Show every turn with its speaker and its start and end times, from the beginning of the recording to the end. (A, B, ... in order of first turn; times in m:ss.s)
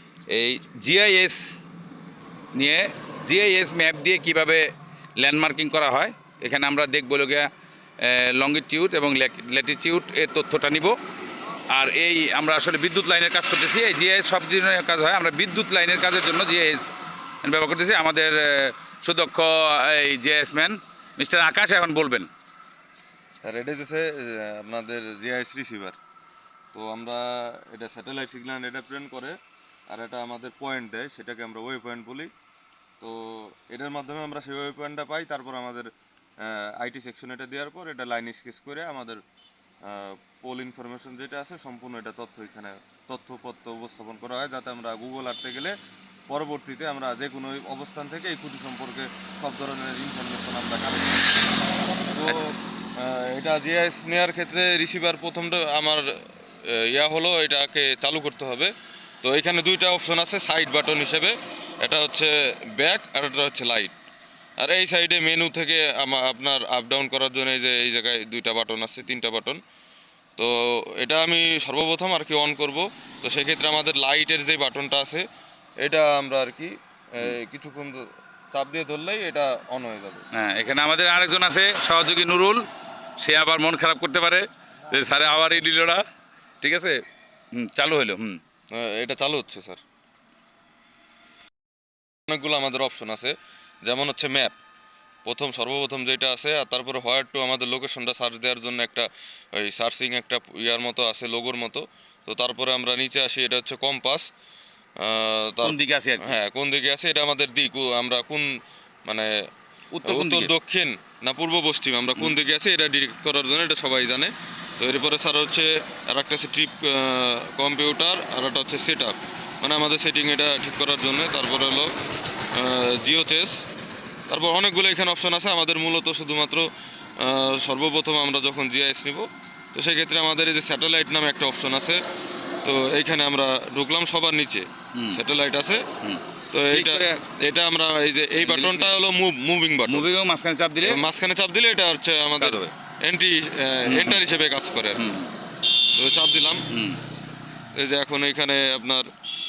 0:00.3-0:01.5 A
0:02.5-0:04.7 A
0:05.2-0:07.5 A
0:08.0-0:11.0 A
0:11.7-0:16.9 A
0:17.4-0:22.3 A
0:23.4-0:26.0 B
0:26.7-0:29.3 B
0:29.9-0:32.3 B
0:33.0-0:35.9 B
0:36.4-0:39.2 B
0:39.8-0:45.7 B
0:46.3-0:51.3 B
0:52.1-0:56.1 B
0:56.6-0:58.7 B
0:59.2-1:03.9 B
1:04.6-1:09.6 B
1:10.4-1:15.2 B
1:15.8-1:20.2 B
1:20.3-1:22.6 A
1:23.2-1:26.0 A
1:24.9-1:25.6 B
1:26.6-1:27.0 A
1:27.5-1:28.4 A
1:28.7-1:29.8 B
1:32.3-1:34.6 B
1:35.2-1:44.3 B
1:45.0-1:48.5 B
1:45.6-1:46.3 A
1:49.0-1:49.3 B
1:49.9-1:50.5 A
1:50.0-2:01.9 B
2:02.5-2:03.6 B
2:04.3-2:06.7 B
2:07.2-2:12.0 B
2:12.6-2:15.8 B
2:14.9-2:15.2 A
2:16.0-2:17.2 A
2:16.5-2:20.1 B
2:18.4-2:18.9 A
2:19.9-2:21.0 A
2:20.8-2:25.1 B
2:22.4-2:22.7 A
2:23.8-2:24.2 A
2:25.0-2:25.3 A
2:26.0-2:26.6 B
2:26.7-2:27.0 A
2:27.7-2:29.1 B